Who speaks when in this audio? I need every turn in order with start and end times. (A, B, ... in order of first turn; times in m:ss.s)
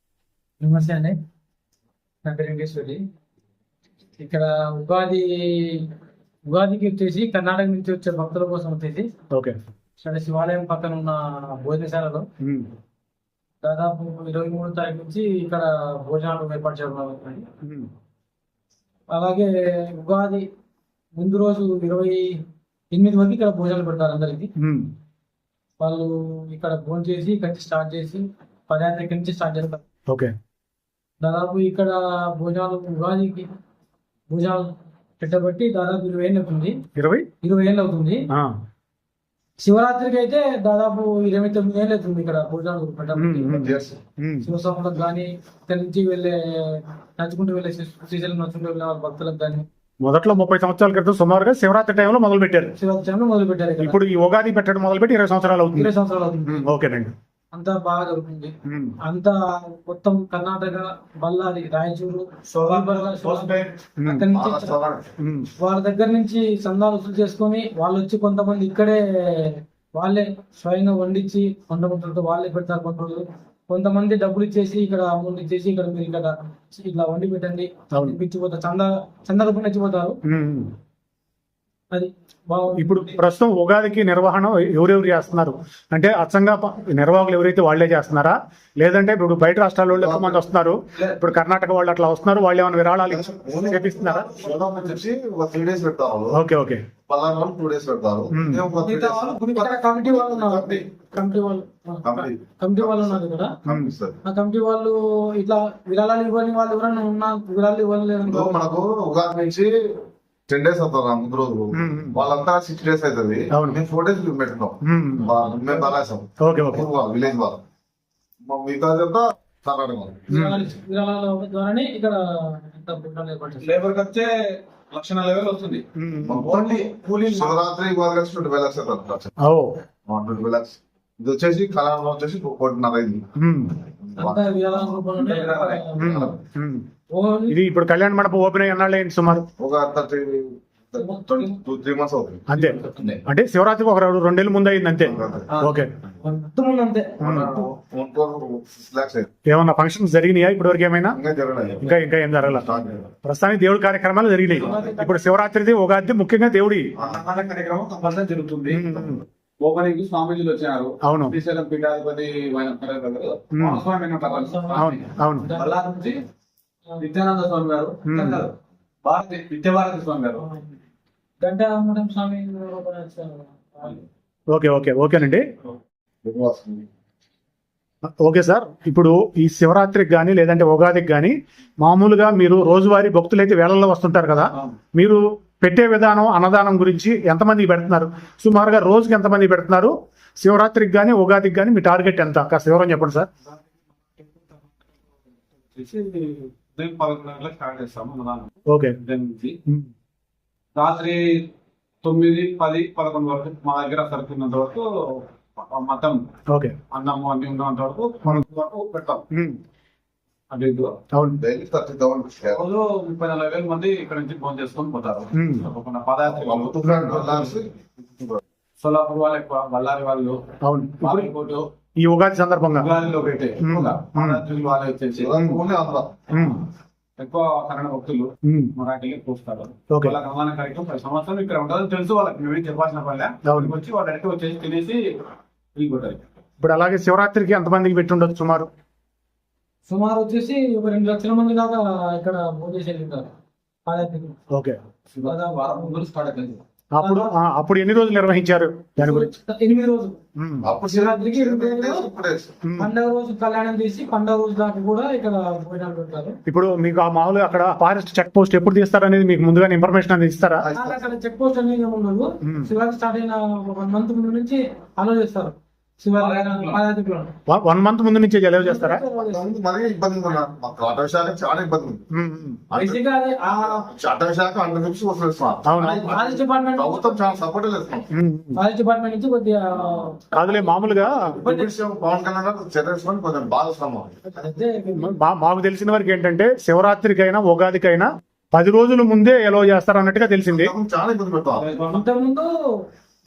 0:00.6-0:01.2 A
0:02.2-0:03.0 A
0:04.2-0:05.9 A
0:06.5-0:09.1 A
0:09.3-0:09.6 B
0:10.0-0:12.3 A
0:12.4-0:12.7 B
0:13.6-0:17.5 A
0:17.6-0:17.9 B
0:19.1-0:20.5 A
0:21.2-0:24.5 A
0:24.6-0:24.9 B
0:25.8-0:29.8 A
0:30.1-0:30.3 B
0:31.2-0:33.5 A
0:34.3-0:36.8 A
0:37.0-0:37.2 B
0:37.4-0:38.2 A
0:38.3-0:38.6 B
0:39.6-0:43.8 A
0:43.2-0:44.5 B
0:43.6-0:44.0 C
0:44.4-0:49.6 A
0:50.0-0:52.7 B
0:52.8-0:54.0 A
0:53.8-0:55.9 B
0:55.7-0:56.7 A
0:56.4-0:57.1 B
0:57.5-1:04.8 A
0:58.7-0:59.0 B
1:02.5-1:03.8 D
1:04.0-1:04.3 B
1:04.3-1:05.1 C
1:05.2-1:05.5 B
1:05.6-1:20.2 A
1:20.2-1:20.7 B
1:21.9-1:23.2 A
1:22.8-1:34.3 B
1:29.9-1:30.4 C
1:33.1-1:36.4 C
1:33.9-1:35.0 D
1:36.3-1:36.8 B
1:37.0-1:40.8 C
1:38.3-1:38.6 B
1:38.8-1:43.6 A
1:42.0-1:44.2 C
1:43.7-1:43.9 B
1:44.2-1:48.7 A
1:48.2-1:49.8 C
1:50.5-1:57.6 C
1:51.7-1:52.2 B
1:53.5-1:53.8 B
1:54.8-1:55.3 B
1:56.4-1:56.8 B
1:58.4-2:00.3 C
2:00.3-2:03.7 A
2:00.3-2:00.7 B
2:03.6-2:07.6 D
2:06.0-2:06.5 B
2:06.2-2:09.3 C
2:09.4-2:09.7 B
2:10.1-2:13.3 C
2:13.4-2:13.8 B
2:14.0-2:14.5 C
2:14.2-2:16.3 A
2:15.2-2:15.8 D
2:16.0-2:16.8 B
2:16.0-2:16.3 C
2:17.1-2:17.6 A
2:17.5-2:19.5 B
2:19.6-2:23.2 C
2:21.0-2:21.6 A
2:22.5-2:25.9 B
2:25.0-2:25.5 C
2:25.5-2:25.8 D
2:26.2-2:27.6 A
2:27.2-2:27.5 B
2:27.2-2:29.3 C
2:29.5-2:31.2 B
2:31.1-2:33.1 C
2:31.8-2:36.9 B
2:34.6-2:35.4 A
2:37.0-2:37.2 C
2:37.0-2:38.8 D
2:38.7-2:39.2 B
2:38.9-2:39.2 C
2:39.6-2:46.2 D
2:41.0-2:41.3 B
2:43.5-2:43.8 B
2:44.2-2:46.0 A
2:44.7-2:45.5 B
2:47.0-2:48.5 D
2:48.0-2:48.5 B
2:49.0-2:50.4 D
2:50.4-2:50.7 A
2:51.4-2:54.0 A
2:54.5-2:55.5 B
2:56.2-2:56.9 C
2:58.2-3:13.3 B
3:14.2-3:14.7 D
3:15.7-3:18.5 D
3:18.7-3:19.0 B
3:19.0-3:19.6 D
3:20.8-3:21.5 D
3:22.0-3:26.2 D
3:26.5-3:26.8 B
3:26.9-3:29.2 D
3:29.3-3:29.6 B
3:30.5-3:31.0 D
3:31.1-3:31.4 B
3:31.4-3:32.6 C
3:32.5-3:37.6 D
3:35.3-3:35.7 B
3:36.2-3:38.4 C
3:36.8-3:37.2 B
3:38.8-3:40.4 D
3:40.6-3:41.3 B
3:41.0-3:41.7 D
3:42.0-3:42.9 B
3:42.8-3:45.4 D
3:43.6-3:44.4 B
3:45.2-3:46.3 C
3:45.4-3:45.6 B
3:46.3-3:46.6 B
3:47.2-3:55.1 D
3:48.4-3:48.7 B
3:49.9-3:50.2 B
3:53.4-3:53.7 B
3:55.8-3:56.2 D
3:56.6-3:58.7 B
3:59.9-4:03.3 A
4:03.9-4:04.4 A
4:04.5-4:04.8 B
4:05.1-4:06.6 D
4:05.2-4:06.0 A
4:06.9-4:09.3 B
4:07.0-4:07.3 A
4:09.0-4:10.2 A
4:10.4-4:10.7 B
4:10.6-4:12.6 C
4:10.9-4:12.1 A
4:12.6-4:12.9 B
4:12.8-4:16.4 A
4:16.5-4:20.7 B
4:20.6-4:21.0 C
4:20.7-4:27.3 A
4:22.4-4:22.7 B
4:26.2-4:26.8 D
4:27.5-4:29.0 B
4:28.6-4:29.5 A
4:29.1-4:32.1 C
4:32.1-4:32.6 B
4:32.7-4:38.1 C
4:32.7-4:33.8 A
4:35.6-4:36.1 B
4:36.1-4:37.4 A
4:38.1-4:38.6 B
4:38.6-4:41.7 A
4:40.3-4:41.4 B
4:41.2-4:44.3 C
4:44.3-4:45.2 A
4:45.0-4:50.7 B
4:50.5-4:51.6 C
4:51.5-4:52.0 D
4:51.8-4:52.5 A